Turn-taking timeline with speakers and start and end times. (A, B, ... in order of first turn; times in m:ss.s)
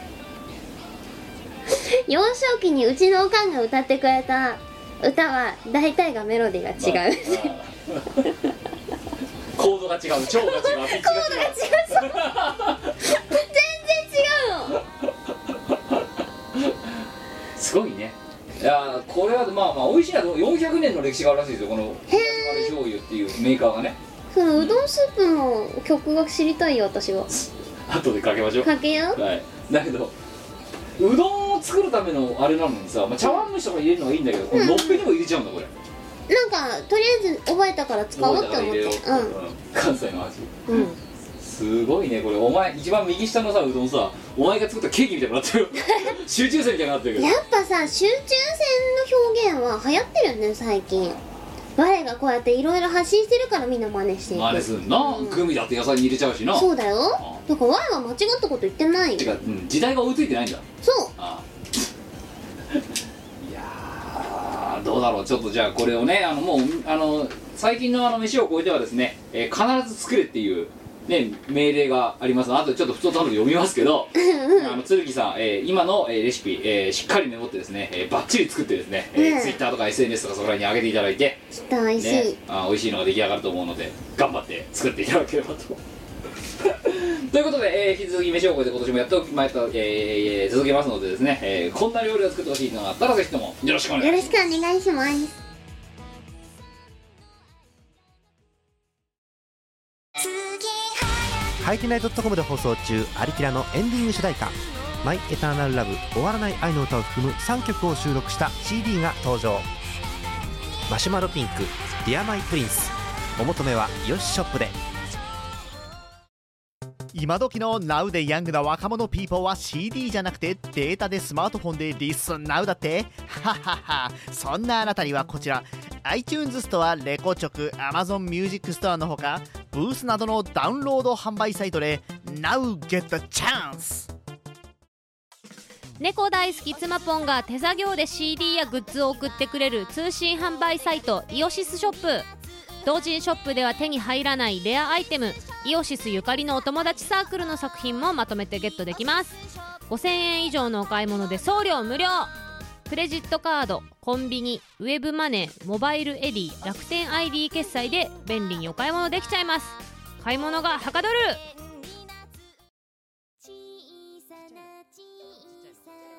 0:01.7-0:07.5 A
0:06.8-0:08.3 B
0:09.5-0:13.0 B
0:10.3-0:14.8 A
0:16.5-0:16.9 B
0:17.6-0:24.0 B
0:22.1-0:22.7 A
0:24.3-0:27.3 A
0:27.3-0:30.1 B
0:28.6-0:29.2 A
0:31.0-0:35.7 B
0:34.5-0:35.1 A
0:36.3-0:39.4 A
0:38.2-0:40.8 B
0:40.7-0:41.0 A
0:41.4-0:47.3 B
0:47.2-0:51.2 A
0:51.8-0:55.5 A
0:54.3-0:57.4 B
0:56.5-0:59.3 A
0:59.2-1:00.6 B
1:00.8-1:01.1 A
1:01.2-1:01.4 B
1:03.4-1:21.4 B
1:14.2-1:14.8 A
1:19.2-1:19.6 A
1:21.5-1:22.4 A
1:22.0-1:25.8 B
1:26.6-1:34.3 B
1:34.0-1:35.4 A
1:40.2-1:41.0 A
1:41.6-1:49.7 C
1:50.9-1:54.8 C
1:57.1-2:14.1 D
2:16.0-2:22.3 E
2:22.8-2:32.3 E
2:32.9-2:41.4 E